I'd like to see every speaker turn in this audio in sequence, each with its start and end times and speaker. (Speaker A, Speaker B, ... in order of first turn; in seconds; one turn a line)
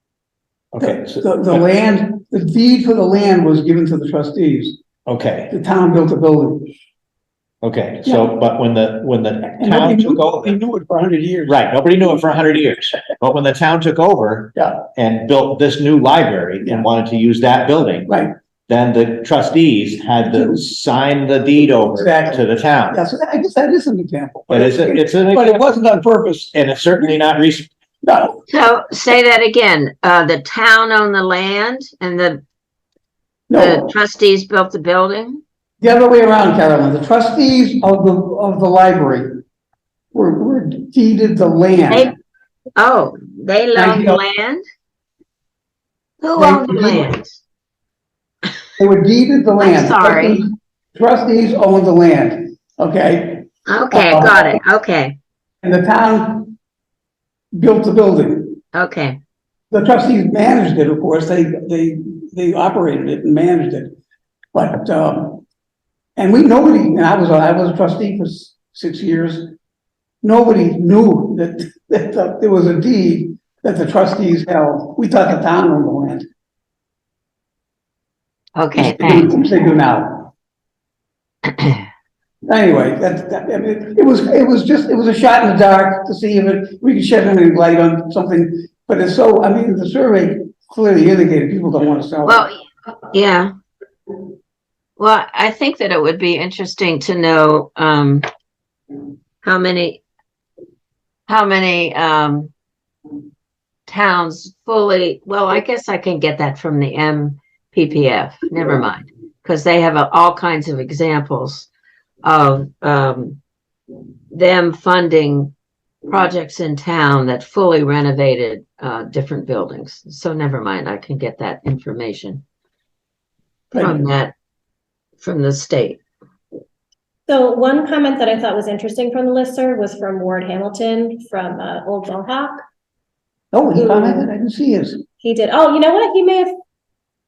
Speaker A: 0.7-1.6
Speaker B: 0.8-4.8
Speaker A: 5.0-5.5
Speaker B: 5.5-6.7
Speaker A: 7.6-10.6
Speaker B: 8.0-8.3
Speaker B: 9.6-11.6
Speaker A: 11.5-18.1
Speaker B: 14.6-14.8
Speaker A: 18.7-23.0
Speaker B: 20.2-20.6
Speaker B: 21.7-27.0
Speaker A: 24.5-25.6
Speaker A: 26.5-27.7
Speaker B: 28.0-28.4
Speaker C: 28.5-32.4
Speaker B: 33.5-33.9
Speaker C: 33.5-35.4
Speaker B: 35.8-39.4
Speaker B: 40.1-42.1
Speaker C: 42.8-44.6
Speaker B: 43.7-44.2
Speaker C: 46.2-47.4
Speaker B: 46.4-47.1
Speaker B: 48.8-54.6
Speaker C: 49.6-50.4
Speaker C: 53.7-55.2
Speaker B: 55.6-56.5
Speaker B: 57.5-58.6
Speaker C: 58.7-59.2
Speaker B: 59.7-63.9
Speaker B: 64.5-65.4
Speaker B: 66.2-69.5
Speaker B: 70.2-76.2
Speaker C: 78.5-79.3
Speaker B: 78.7-80.3
Speaker B: 82.5-92.4
Speaker C: 92.2-92.6
Speaker C: 93.1-93.5
Speaker C: 95.0-98.2
Speaker C: 99.4-100.0
Speaker C: 101.3-102.5
Speaker C: 103.9-111.7
Speaker C: 112.2-113.4
Speaker C: 114.3-115.5
Speaker C: 116.1-122.4
Speaker C: 123.7-124.3
Speaker B: 123.7-124.0
Speaker C: 125.2-126.0
Speaker D: 127.2-132.6
Speaker B: 133.5-135.0
Speaker D: 133.7-134.3
Speaker D: 135.2-136.5